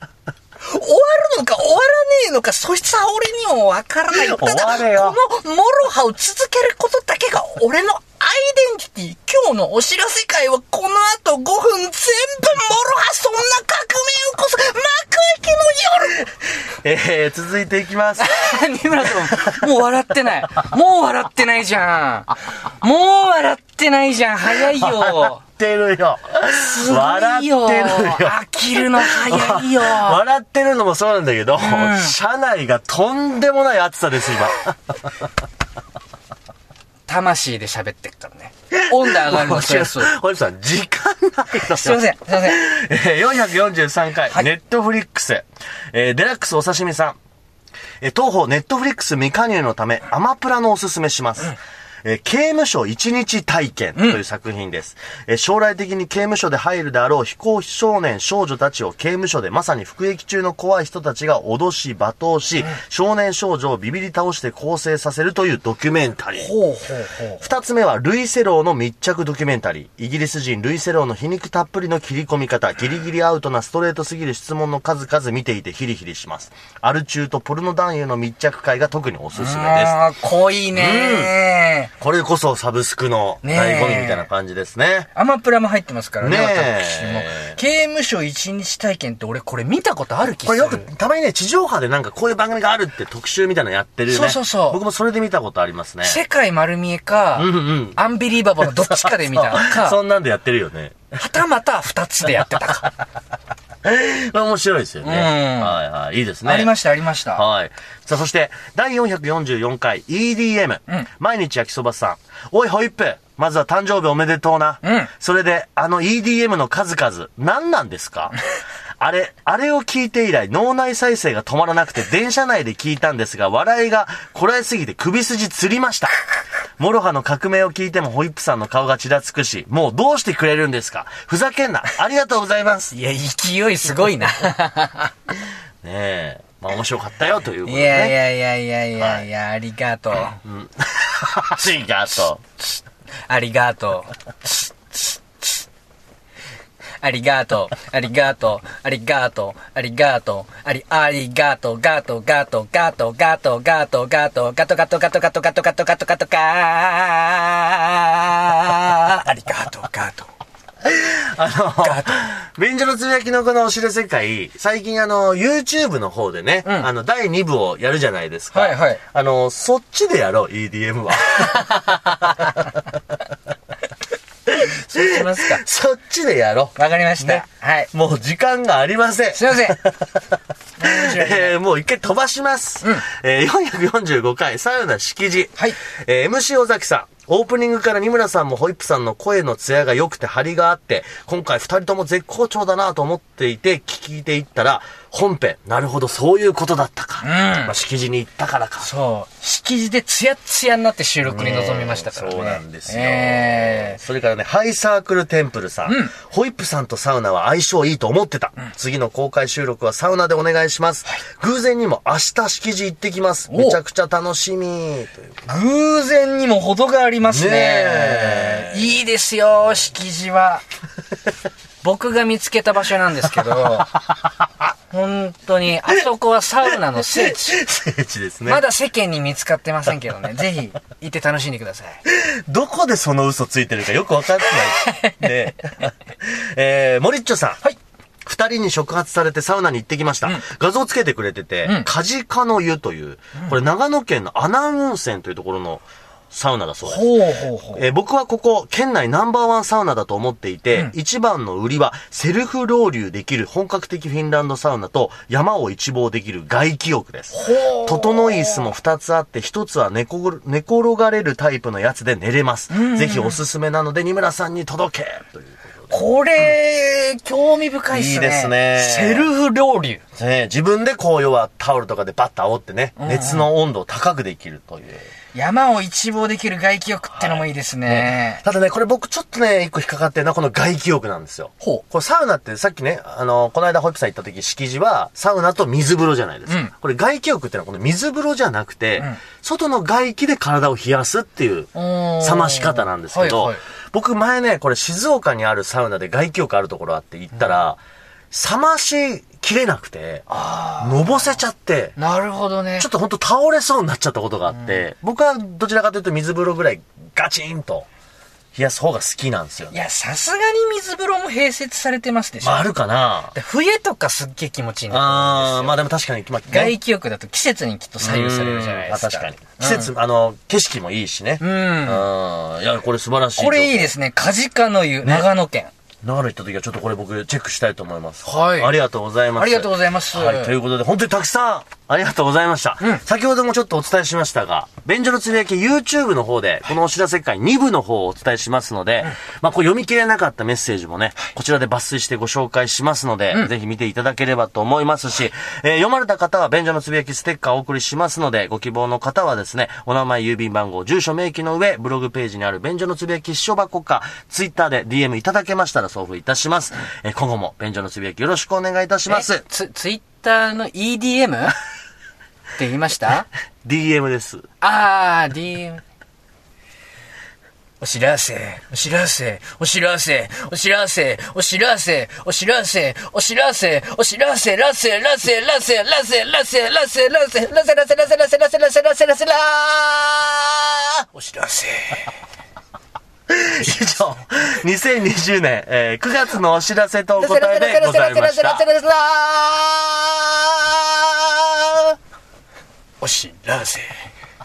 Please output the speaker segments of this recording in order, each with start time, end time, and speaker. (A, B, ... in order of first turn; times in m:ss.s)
0:00.6-0:16.3 A
0:04.1-0:05.2 B
0:16.8-0:18.5 B
0:18.2-0:25.4 A
0:19.2-0:19.6 B
0:24.6-0:28.4 B
0:26.5-0:30.2 A
0:29.0-0:35.1 B
0:31.6-0:32.2 A
0:37.1-0:40.2 A
0:38.7-0:47.2 B
0:41.6-0:42.6 A
0:48.0-1:06.5 B
1:06.4-1:07.4 A
1:07.4-1:20.0 B
1:19.4-1:21.9 A
1:20.7-1:21.4 B
1:22.0-1:25.1 B
1:23.4-1:24.2 A
1:25.2-1:30.9 A
1:26.2-1:27.6 B
1:30.4-1:36.2 B
1:34.1-1:34.8 A
1:36.0-1:40.0 A
1:37.4-1:38.0 B
1:38.8-1:41.0 B
1:41.2-1:42.9 A
1:43.8-1:46.8 B
1:45.0-1:45.8 A
1:46.4-1:47.4 A
1:47.3-1:58.4 B
1:54.8-1:55.1 A
1:59.0-2:06.1 B
2:06.8-2:12.9 B
2:12.9-2:15.1 A
2:15.8-2:18.2 B
2:17.6-2:20.4 A
2:19.0-2:19.2 B
2:20.4-2:22.4 B
2:22.6-2:25.7 A
2:27.0-2:40.3 A
2:40.8-2:52.7 B
2:41.8-2:42.2 A
2:48.5-2:49.0 A
2:54.5-3:00.2 B
2:54.7-2:55.6 A
2:56.8-2:57.9 A
2:59.3-2:59.8 A
3:00.8-3:01.6 A
3:00.8-3:18.9 B
3:17.2-3:17.7 A
3:18.8-3:24.0 A
3:21.2-3:35.4 B
3:25.9-3:26.1 A
3:33.5-3:33.8 A
3:35.5-3:40.6 A
3:37.3-3:39.0 B
3:41.8-3:43.9 A
3:44.9-3:47.6 A
3:47.2-3:48.6 B
3:48.5-3:52.0 A
3:52.1-3:57.6 B
3:54.8-3:55.3 A
3:58.2-4:07.2 B
4:06.9-4:07.8 A
4:07.7-4:26.0 B
4:17.3-4:18.7 A
4:22.7-4:23.4 A
4:25.9-4:30.0 A
4:27.9-4:29.3 B
4:30.2-4:35.1 B
4:33.0-4:33.5 A
4:35.3-4:38.4 A
4:37.2-5:00.3 B
4:46.5-4:46.7 A
4:51.8-4:53.6 A
5:00.3-5:01.2 A
5:00.8-5:02.0 B
5:02.0-5:02.9 A
5:02.8-5:07.9 B
5:08.5-5:09.8 B
5:09.7-5:12.7 A
5:12.4-5:13.3 B
5:13.3-5:15.7 A
5:14.9-5:16.8 B
5:16.5-5:19.9 A
5:18.0-5:23.9 B
5:21.4-5:22.0 A
5:23.4-5:25.7 A
5:25.0-5:25.3 B
5:26.0-5:59.4 B
5:28.2-5:28.8 A
5:29.4-5:30.5 A
5:59.1-6:01.6 A
6:02.6-6:03.3 A
6:03.6-6:04.5 B
6:04.6-6:05.8 A
6:07.8-6:22.1 A
6:23.3-6:28.7 B
6:27.2-6:31.4 A
6:33.0-6:33.9 A